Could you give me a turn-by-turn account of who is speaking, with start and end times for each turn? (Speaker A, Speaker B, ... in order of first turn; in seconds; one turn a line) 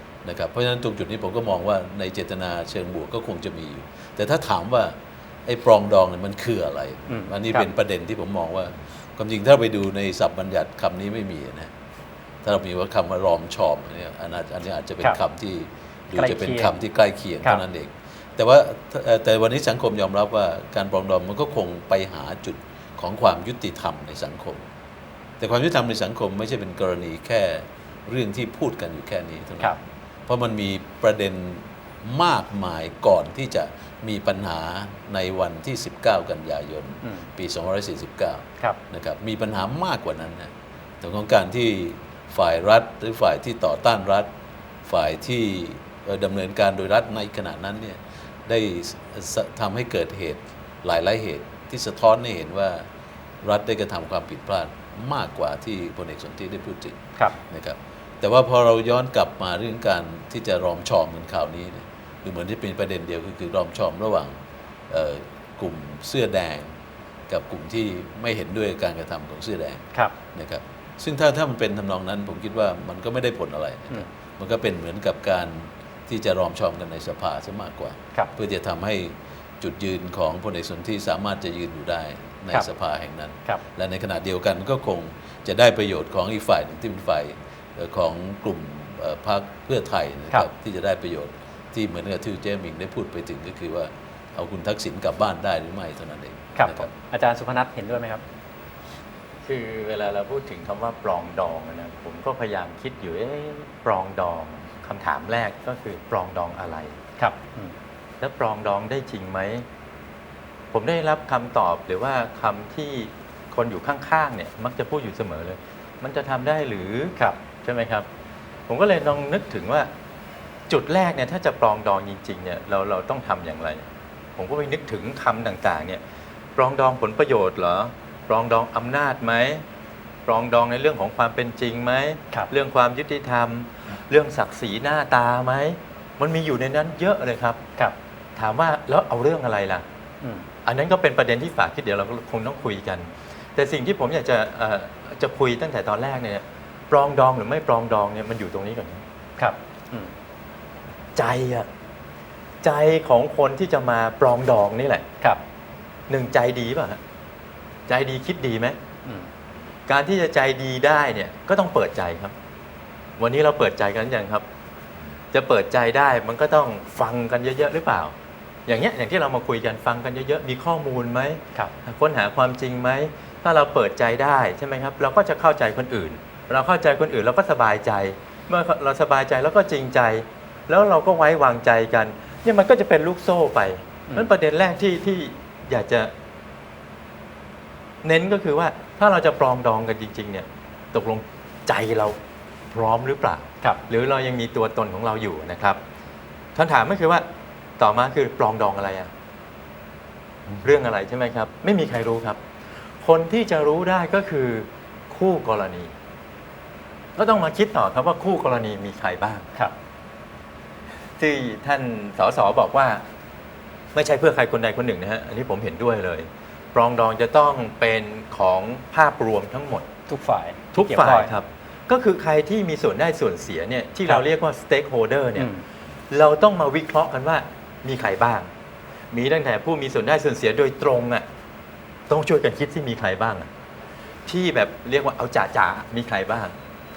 Speaker A: 0.2-11.7
Speaker B: 7.1-7.7
Speaker A: 12.4-24.6
Speaker B: 16.2-16.7
Speaker A: 25.4-40.5
Speaker A: 41.0-44.3
Speaker A: 44.9-52.9
Speaker A: 53.4-64.4
Speaker A: 64.9-66.7
Speaker A: 67.3-69.8
Speaker A: 70.3-96.9
Speaker B: 96.6-98.2
Speaker C: 99.4-107.0
Speaker B: 107.2-107.7
Speaker C: 108.2-109.7
Speaker C: 110.7-118.1
Speaker C: 118.7-119.9
Speaker C: 120.7-126.0
Speaker C: 126.6-129.6
Speaker C: 130.3-137.6
Speaker C: 138.4-139.8
Speaker B: 140.2-140.5
Speaker C: 140.7-149.0
Speaker B: 149.4-150.1
Speaker C: 151.2-151.7
Speaker C: 152.6-155.1
Speaker C: 156.1-157.0
Speaker C: 157.9-158.8
Speaker C: 159.9-162.3
Speaker C: 163.2-164.5
Speaker C: 165.3-168.1
Speaker C: 168.7-186.1
Speaker C: 188.0-192.2
Speaker C: 192.7-195.8
Speaker C: 196.6-197.3
Speaker C: 197.8-199.1
Speaker C: 200.5-202.4
Speaker C: 203.0-205.9
Speaker C: 207.2-209.5
Speaker C: 211.2-213.0
Speaker C: 213.9-219.9
Speaker B: 220.1-221.3
Speaker C: 220.7-225.5
Speaker B: 225.4-225.6
Speaker C: 226.1-228.5
Speaker C: 229.1-231.3
Speaker C: 232.1-233.5
Speaker C: 234.3-236.5